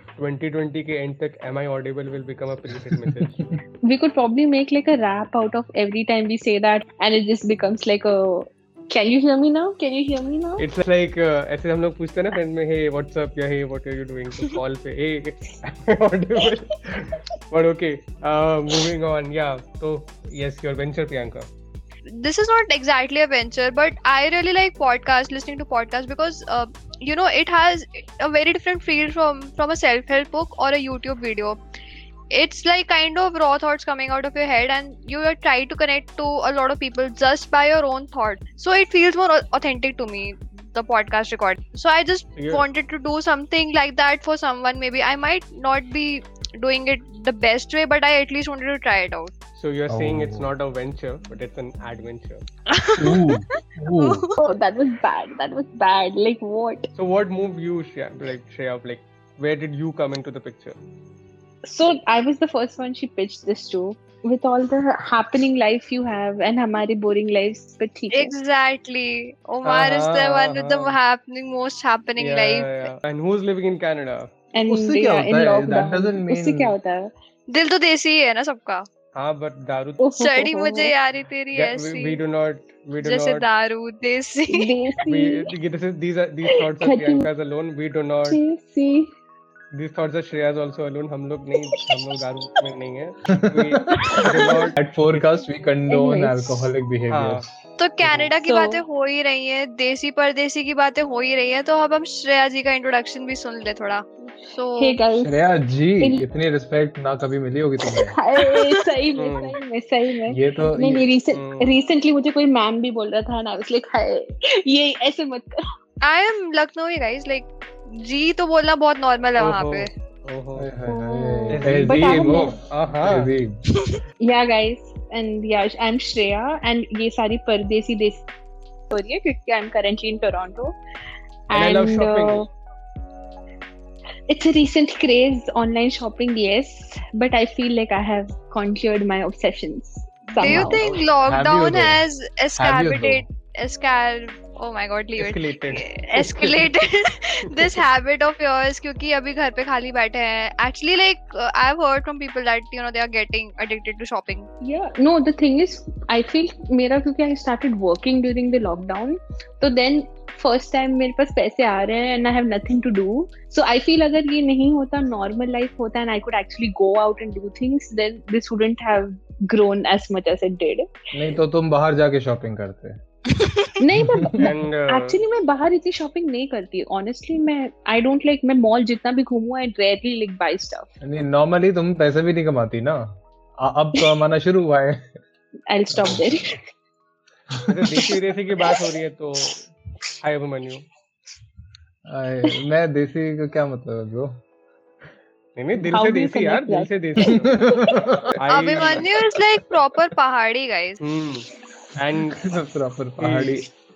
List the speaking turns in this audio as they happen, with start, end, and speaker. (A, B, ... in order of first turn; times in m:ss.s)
0:00.2-0:03.4 A
0:03.8-0:10.7 B
0:10.6-0:21.5 A
0:22.1-0:31.6 C
0:32.3-0:49.3 C
0:42.4-0:42.7 A
0:49.6-0:52.4 A
0:49.9-0:50.5 D
0:52.7-0:53.3 C
0:53.0-0:54.2 D
0:54.0-0:54.3 C
0:54.4-0:56.9 B
0:57.0-1:00.8 A
1:01.6-1:08.3 B
1:08.1-1:12.9 C
1:09.6-1:11.0 A
1:12.2-1:14.3 A
1:14.5-1:17.1 B
1:14.7-1:16.8 D
1:17.5-1:18.9 C
1:19.1-1:20.1 A
1:20.0-1:20.9 B
1:20.2-1:22.2 C
1:21.5-1:23.5 A
1:23.0-1:24.7 C
1:24.5-1:25.5 B
1:25.0-1:28.4 A
1:26.7-1:27.3 B
1:28.3-1:29.1 B
1:29.7-1:35.3 A
1:33.4-1:34.1 D
1:34.0-1:34.7 B
1:34.8-1:37.5 D
1:35.9-1:36.7 B
1:37.1-1:37.5 A
1:37.8-1:45.0 C
1:38.0-1:38.3 A
1:38.4-1:38.8 B
1:44.8-1:45.3 B
1:45.2-1:48.2 D
1:48.1-1:55.6 B
1:49.2-1:49.6 A
1:50.3-1:51.1 D
1:51.3-1:51.8 A
1:56.0-1:59.9 C
1:59.4-2:00.7 A
2:00.6-2:03.6 D
2:00.9-2:02.6 B
2:01.5-2:03.3 A
2:03.7-2:04.0 C
2:04.2-2:08.3 B
2:08.9-2:10.8 B
2:11.5-2:12.5 B
2:11.5-2:12.5 A
2:14.3-2:20.8 B
2:20.4-2:34.5 C
2:20.4-2:23.2 D
2:25.2-2:26.8 A
2:34.6-2:51.3 B
2:51.1-2:53.0 D
2:53.4-2:53.8 C
2:53.8-3:00.9 B
2:54.0-2:54.5 D
2:54.4-2:55.2 A
3:01.0-3:05.0 D
3:05.7-3:06.6 B
3:06.0-3:06.2 D
3:07.5-3:07.9 D
3:07.7-3:09.7 A
3:10.2-3:10.8 A
3:12.1-3:14.3 D
3:15.6-3:17.6 A
3:15.8-3:18.2 B
3:17.2-3:18.3 D
3:18.4-3:19.2 A
3:18.5-3:21.0 C
3:21.0-3:22.5 A
3:22.3-3:23.7 D
3:23.2-3:23.7 A